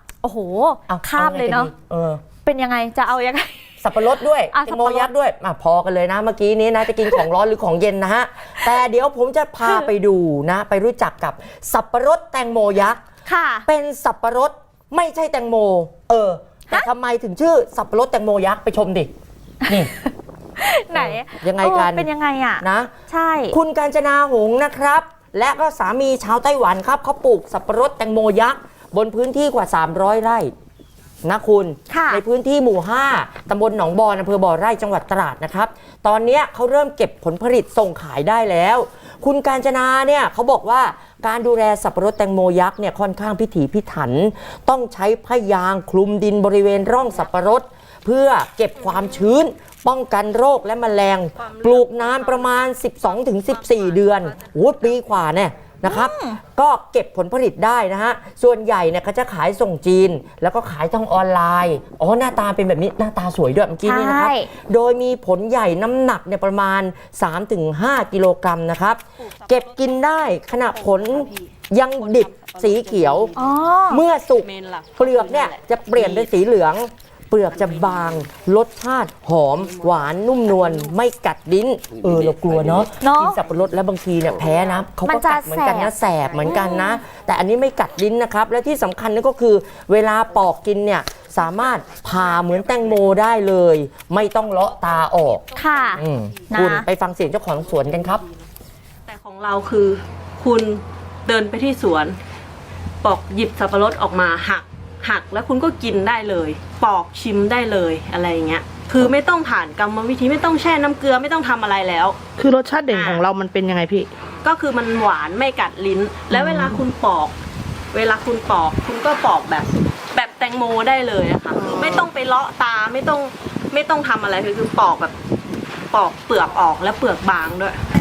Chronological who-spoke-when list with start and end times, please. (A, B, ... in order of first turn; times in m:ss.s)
0:00.2-0:01.7 A
0:00.9-0:02.2 B
0:02.4-0:04.0 A
0:03.8-0:13.0 B
0:04.5-0:05.1 A
0:13.2-0:13.7 A
0:13.7-0:19.1 B
0:19.7-0:23.6 A
0:20.9-0:22.1 B
0:22.6-0:22.9 B
0:23.5-0:30.5 B
0:31.2-1:13.3 B
0:31.9-0:32.2 A
0:51.4-0:52.6 C
0:53.4-0:55.0 C
0:55.8-0:56.4 A
1:03.8-1:04.5 A
1:09.4-1:10.0 C
1:10.5-1:13.5 C
1:13.4-1:14.0 A
1:13.9-1:38.2 B
1:14.4-1:16.3 C
1:17.7-1:18.1 C
1:23.0-1:23.4 A
1:25.0-1:25.9 A
1:26.4-1:27.0 A
1:31.9-1:32.6 C
1:34.8-1:36.8 C
1:35.6-1:36.8 A
1:37.3-1:38.5 C
1:39.0-1:42.2 C
1:43.0-1:52.2 C
1:52.4-1:54.1 D
1:52.9-1:53.2 C
1:54.4-1:57.3 C
1:56.3-1:56.8 D
1:57.9-2:05.1 C
2:01.6-2:02.0 D
2:05.9-2:07.8 C